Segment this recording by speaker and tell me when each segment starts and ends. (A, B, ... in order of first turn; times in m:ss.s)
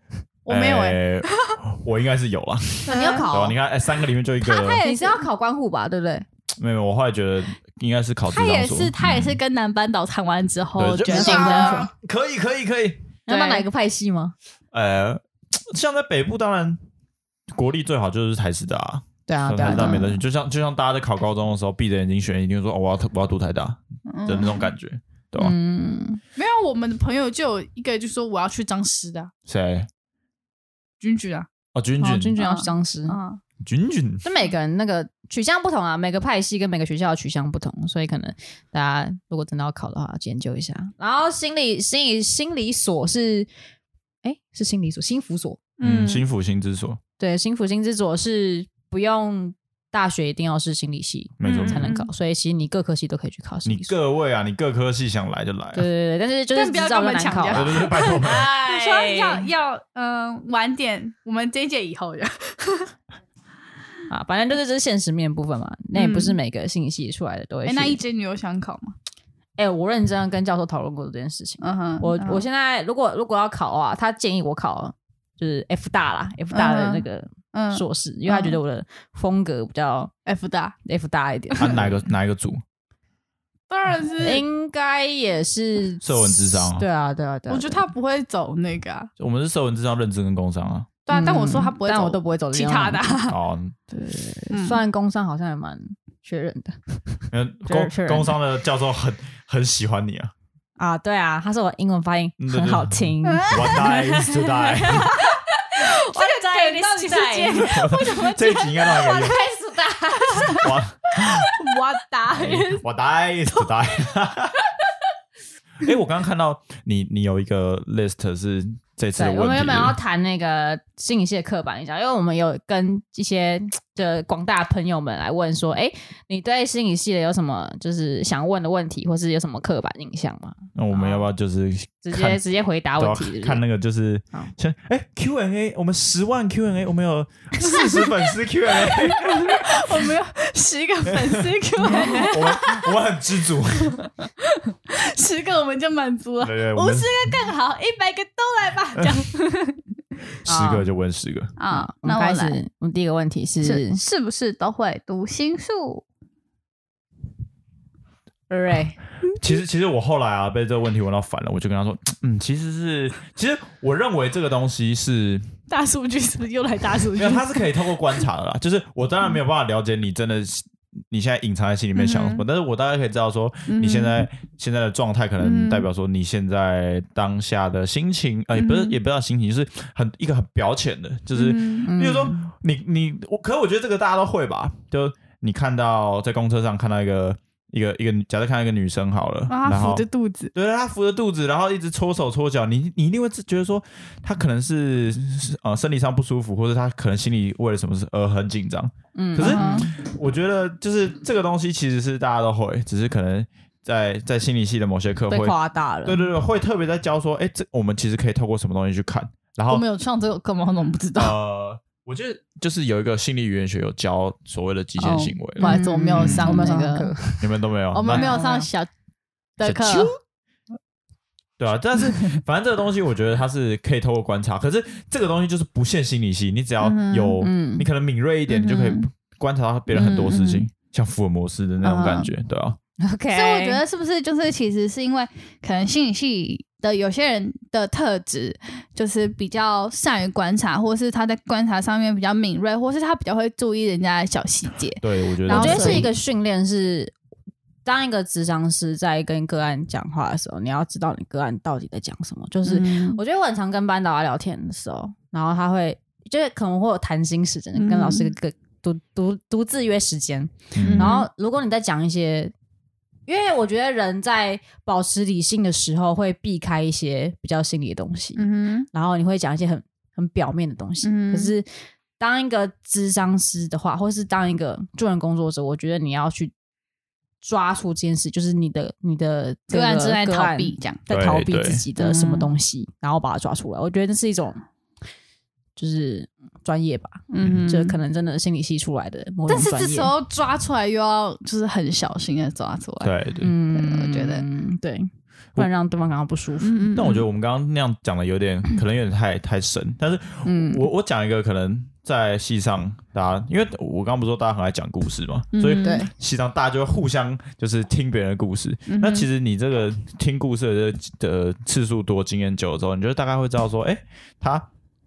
0:00.4-0:01.6 A
0:00.5-0:04.8 B
0:02.8-0:03.6 C
0:02.9-0:03.3 A
0:04.4-0:05.2 A
0:04.8-0:06.2 C
0:06.6-0:09.4 B
0:08.3-0:11.9 A
0:10.8-0:13.0 B
0:11.0-0:11.9 C
0:13.3-0:14.3 C
0:13.3-0:13.6 A
0:14.7-0:16.8 B
0:17.5-0:25.5 B
0:19.3-0:20.2 C
0:24.1-0:24.7 A
0:25.4-0:26.2 C
0:26.4-0:29.3 A
0:29.5-0:29.9 B
0:31.0-0:31.5 A
0:31.7-0:32.3 B
0:32.0-0:33.2 C
0:32.4-0:33.4 A
0:33.6-0:34.2 B
0:34.2-0:43.5 C
0:44.2-0:45.6 C
0:45.8-0:46.2 A
0:45.8-0:47.0 B
0:47.2-0:53.9 C
0:51.4-0:51.9 B
0:51.4-0:52.1 A
0:53.6-0:55.9 B
0:55.7-0:59.4 C
0:56.5-1:02.9 A
0:57.5-0:58.4 B
1:04.1-1:08.0 C
1:05.9-1:06.4 A
1:07.6-1:08.9 A
1:09.6-1:20.1 C
1:11.6-1:12.4 A
1:16.5-1:18.6 A
1:20.2-1:20.7 A
1:20.8-1:21.9 C
1:21.6-1:22.6 B
1:23.7-1:24.4 A
1:24.2-1:27.8 C
1:26.0-1:26.8 B
1:27.5-1:29.1 A
1:29.2-1:30.9 B
1:31.0-1:33.3 A
1:31.1-1:33.3 C
1:33.3-1:33.7 B
1:33.9-1:38.3 C
1:34.5-1:34.8 A
1:37.3-1:40.3 B
1:40.8-1:47.9 C
1:42.4-1:45.1 B
1:43.3-1:43.9 A
1:45.8-1:49.3 A
1:47.5-1:49.4 B
1:49.0-1:50.7 C
1:50.2-1:52.8 A
1:50.5-1:51.5 B
1:52.3-1:54.5 B
1:55.8-2:00.0 B
1:59.2-2:11.3 C
2:10.8-2:12.4 B
2:12.0-2:13.6 C
2:13.0-2:20.1 B
2:17.6-2:23.0 A
2:21.1-2:24.1 B
2:23.8-2:29.8 A
2:26.4-2:27.1 B
2:30.4-2:31.5 B
2:30.5-2:30.8 C
2:31.6-2:32.6 A
2:31.7-2:34.0 C
2:33.6-2:36.0 A
2:38.5-2:39.0 C
2:39.4-2:45.6 B
2:45.7-2:48.2 A
2:47.1-3:29.8 B
2:51.9-2:52.4 A
2:53.7-2:54.3 A
2:55.4-2:55.9 A
2:58.5-2:59.0 A
3:01.3-3:01.9 A
3:01.8-3:02.5 C
3:09.5-3:10.5 A
3:19.1-3:19.8 C
3:19.4-3:19.9 A
3:25.3-3:26.2 C
3:29.7-3:31.3 A
3:31.2-3:36.7 B
3:35.0-3:37.1 A
3:35.1-3:37.4 C
3:37.4-3:38.4 B
3:37.9-3:38.9 A
3:38.1-3:38.7 C
3:39.6-3:40.1 A
3:39.6-3:40.1 B
3:41.6-3:52.8 B
3:46.8-3:47.4 A
3:47.4-3:47.9 C
3:48.5-3:49.0 A
3:49.9-3:50.6 A
3:51.8-3:52.3 A
3:53.0-3:53.8 C
3:53.3-4:06.1 A
4:05.0-4:06.1 B
4:05.5-4:07.1 C
4:07.8-4:22.5 C
4:12.6-4:13.2 A
4:17.8-4:18.3 A
4:20.7-4:21.2 B
4:20.8-4:21.3 A
4:23.3-4:31.6 C
4:28.4-4:28.9 A
4:31.0-4:31.5 A
4:32.2-4:36.5 C
4:37.4-4:44.6 C
4:39.7-4:41.0 A
4:41.1-4:41.8 B
4:42.0-4:42.5 A
4:45.8-4:50.1 C
4:47.3-4:48.0 A
4:49.5-4:53.1 A
4:53.0-4:53.5 B
4:53.4-4:56.9 C
4:53.7-4:54.4 A
4:56.6-4:57.2 A
4:56.9-5:14.7 B
5:00.4-5:00.8 C
5:05.5-5:06.1 A
5:05.7-5:06.1 C
5:08.9-5:09.3 A